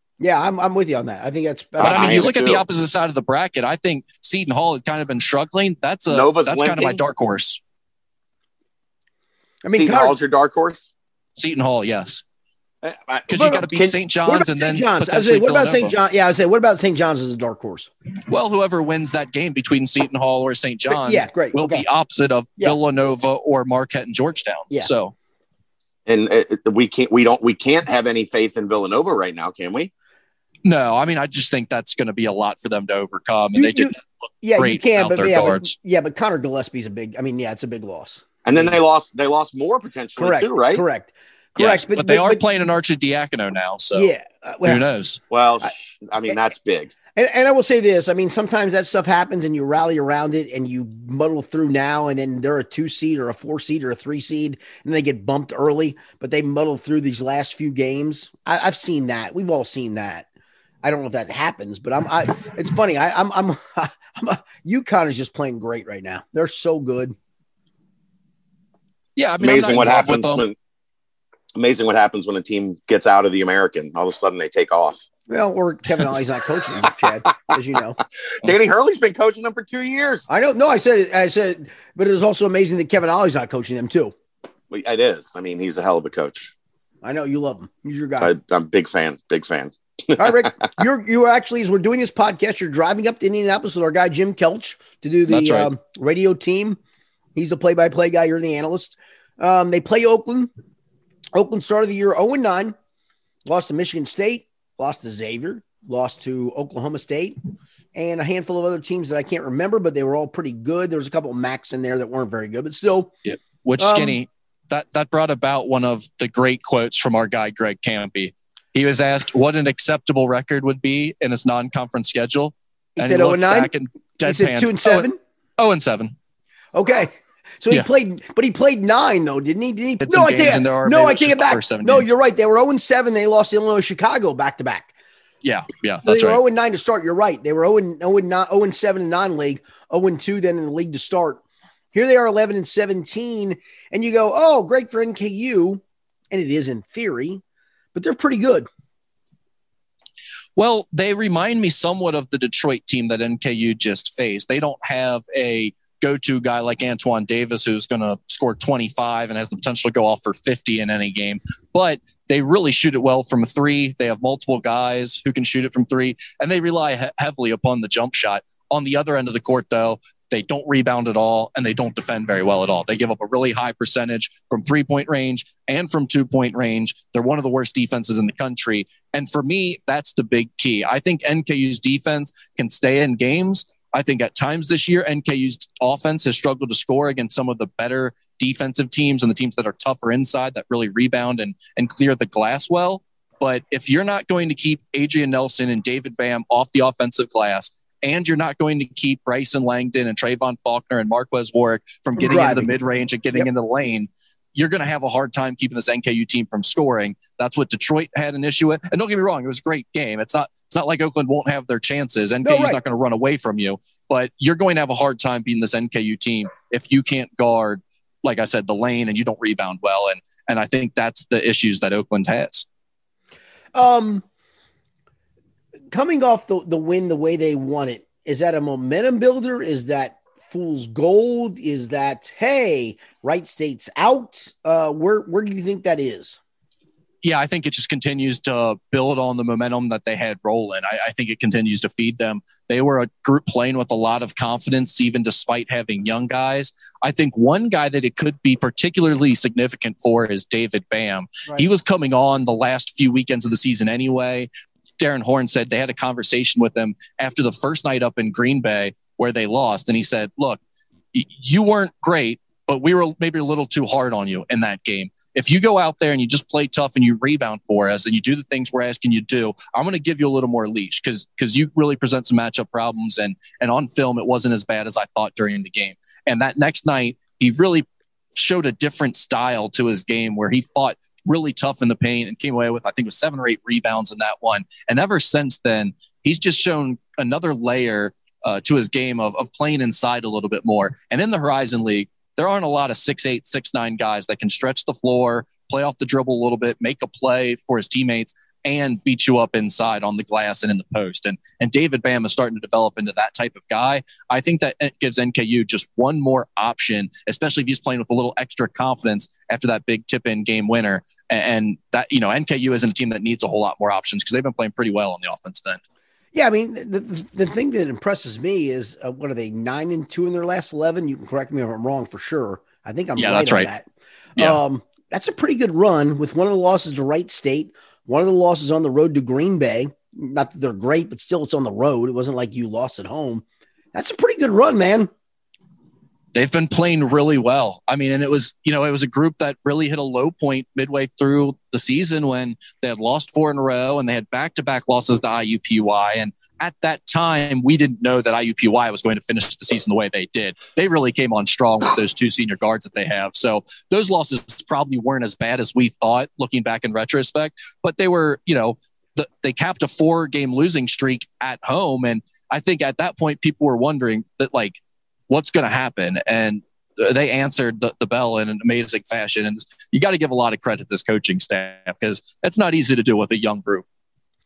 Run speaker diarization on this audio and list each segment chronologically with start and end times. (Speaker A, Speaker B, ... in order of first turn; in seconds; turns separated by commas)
Speaker A: 0.2-2.4, Speaker B: 1.8-2.6, Speaker C: 1.8-7.6, Speaker B: 6.1-7.0, Speaker A: 9.6-10.2, Speaker B: 9.7-10.9, Speaker C: 11.4-12.2, Speaker B: 12.8-13.9, Speaker C: 13.3-15.9, Speaker A: 14.2-17.9, Speaker C: 18.3-25.1, Speaker A: 20.9-21.8, Speaker B: 26.1-29.9, Speaker C: 30.6-35.7, Speaker A: 33.5-38.8, Speaker B: 38.4-40.8, Speaker A: 40.2-42.4, Speaker C: 41.5-44.1, Speaker A: 43.9-44.8, Speaker C: 44.6-45.2, Speaker B: 45.3-46.9, Speaker A: 47.1-60.2, Speaker A: 60.8-67.1, Speaker C: 69.2-70.5, Speaker B: 69.4-70.5, Speaker B: 71.5-75.1, Speaker A: 75.3-78.0, Speaker B: 78.4-80.3, Speaker A: 80.3-84.1, Speaker B: 84.7-86.5, Speaker A: 87.0-88.3, Speaker B: 88.2-90.7, Speaker A: 90.2-96.8, Speaker C: 95.3-95.7, Speaker A: 97.3-100.5, Speaker A: 101.3-102.8, Speaker A: 103.4-107.3, Speaker A: 107.9-113.1, Speaker C: 113.2-126.1, Speaker A: 113.8-114.2, Speaker A: 123.0-123.7, Speaker A: 124.2-125.2, Speaker A: 126.7-134.9, Speaker C: 130.0-132.1, Speaker C: 135.4-136.4, Speaker A: 136.0-147.4, Speaker A: 147.9-148.7, Speaker C: 150.6-222.7, Speaker A: 202.2-202.8, Speaker A: 212.4-212.8, Speaker A: 223.7-224.2, Speaker A: 225.9-236.4, Speaker C: 237.2-254.5, Speaker C: 255.0-260.6, Speaker C: 261.1-315.8, Speaker A: 316.3-335.1, Speaker C: 323.1-323.7, Speaker C: 336.3-373.8